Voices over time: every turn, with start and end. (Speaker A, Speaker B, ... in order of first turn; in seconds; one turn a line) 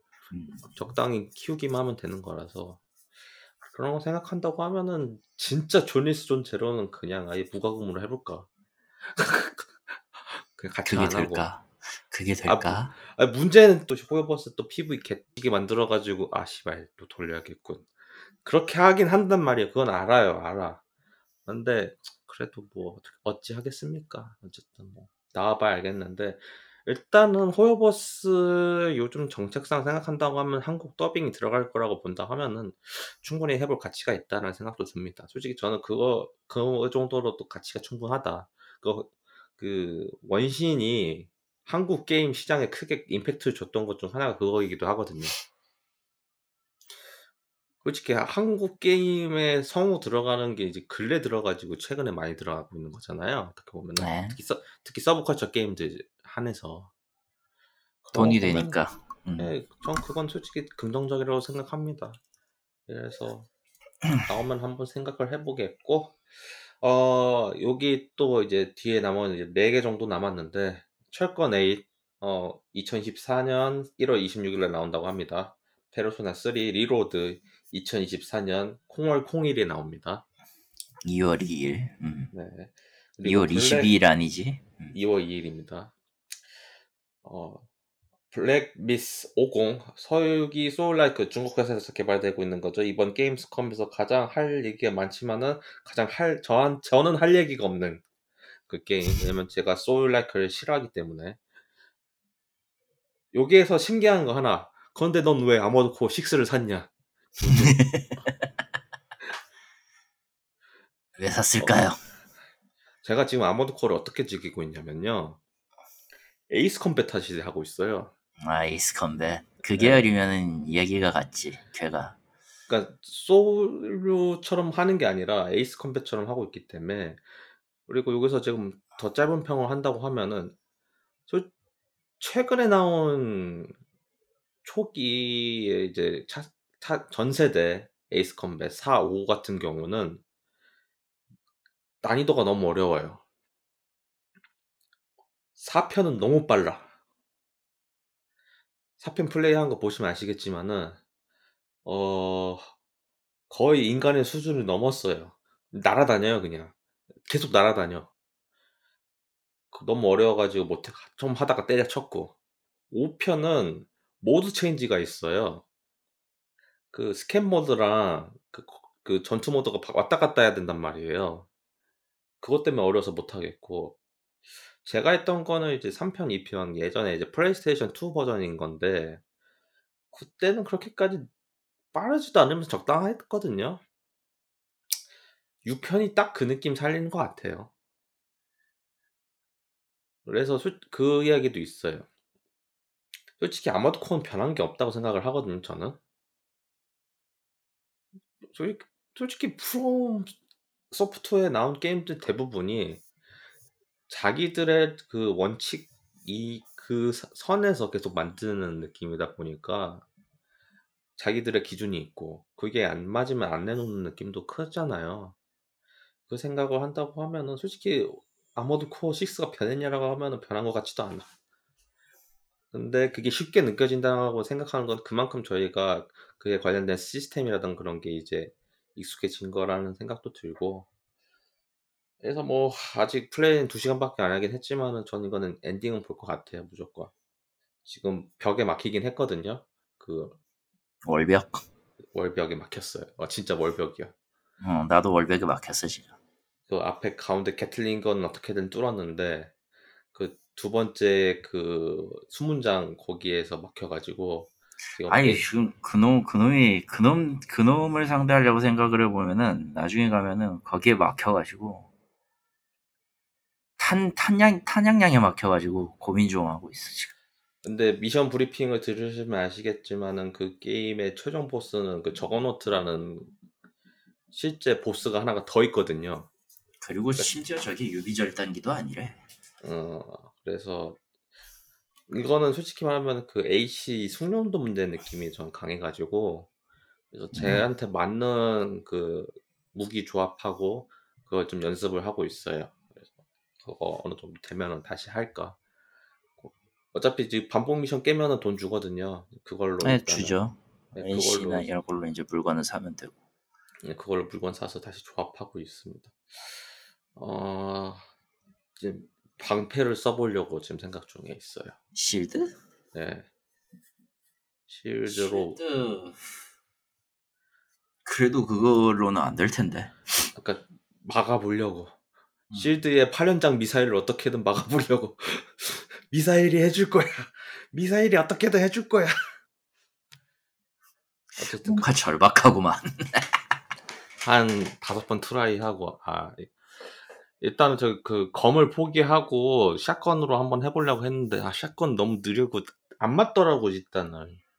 Speaker A: 0.3-0.7
Speaker B: 0.7-2.8
Speaker B: 3.6-8.5
Speaker B: 9.0-11.5
Speaker A: 10.8-12.9
Speaker B: 12.4-17.9
Speaker B: 18.4-20.8
Speaker B: 21.4-45.4
Speaker B: 47.8-56.9
Speaker A: 54.0-54.4
Speaker B: 58.0-58.8
Speaker A: 58.1-59.5
Speaker B: 59.4-62.2
Speaker B: 62.9-63.5
Speaker B: 64.2-80.2
Speaker A: 81.0-82.3
Speaker B: 82.3-83.9
Speaker A: 83.2-85.0
Speaker B: 84.9-85.9
Speaker B: 87.2-87.6
Speaker B: 88.3-98.0
Speaker B: 98.7-101.4
Speaker B: 103.3-107.8
Speaker A: 107.5-108.4
Speaker A: 111.2-112.0
Speaker B: 111.6-111.9
Speaker B: 113.0-115.4
Speaker B: 116.5-118.1
Speaker A: 118.4-122.2
Speaker B: 119.7-120.0
Speaker B: 122.7-127.2
Speaker B: 127.9-130.5
Speaker B: 132.2-133.7
Speaker B: 134.6-140.2
Speaker B: 142.0-143.2
Speaker B: 145.6-146.9
Speaker B: 149.0-151.0
Speaker B: 151.8-152.7
Speaker B: 153.5-156.7
Speaker B: 157.2-158.1
Speaker B: 159.7-162.3
Speaker B: 162.9-165.6
Speaker B: 166.9-171.5
Speaker B: 172.4-174.0
Speaker B: 174.8-179.2
Speaker B: 180.1-181.3
Speaker B: 181.9-183.8
Speaker B: 185.6-187.7
Speaker B: 190.2-192.1
Speaker B: 193.4-196.0
Speaker B: 198.5-200.3
Speaker B: 200.9-203.0
Speaker B: 204.1-210.0
Speaker B: 211.2-215.3
Speaker B: 216.3-221.3
Speaker B: 222.7-230.9
Speaker B: 232.2-237.1
Speaker B: 237.8-240.4
Speaker A: 241.0-241.7
Speaker B: 242.1-244.1
Speaker A: 244.6-246.1
Speaker B: 246.7-249.5
Speaker B: 250.1-255.5
Speaker A: 255.0-261.9
Speaker A: 263.8-267.1
Speaker B: 267.6-273.3
Speaker B: 274.3-276.3
Speaker A: 276.8-279.2
Speaker B: 279.6-281.0
Speaker B: 282.1-286.5
Speaker B: 287.1-293.1
Speaker A: 287.3-287.6
Speaker B: 293.6-295.6
Speaker B: 296.4-300.4
Speaker A: 299.8-303.2
Speaker B: 300.9-301.7
Speaker B: 303.8-306.6
Speaker B: 307.1-308.0
Speaker B: 308.8-311.8
Speaker A: 311.9-312.5
Speaker B: 312.9-313.3
Speaker B: 314.7-315.6
Speaker A: 315.0-316.4
Speaker A: 318.0-320.3
Speaker B: 320.3-321.9
Speaker A: 322.5-322.8
Speaker B: 322.5-329.3
Speaker B: 331.4-331.9
Speaker A: 331.4-333.3
Speaker B: 334.2-336.6
Speaker B: 337.4-344.4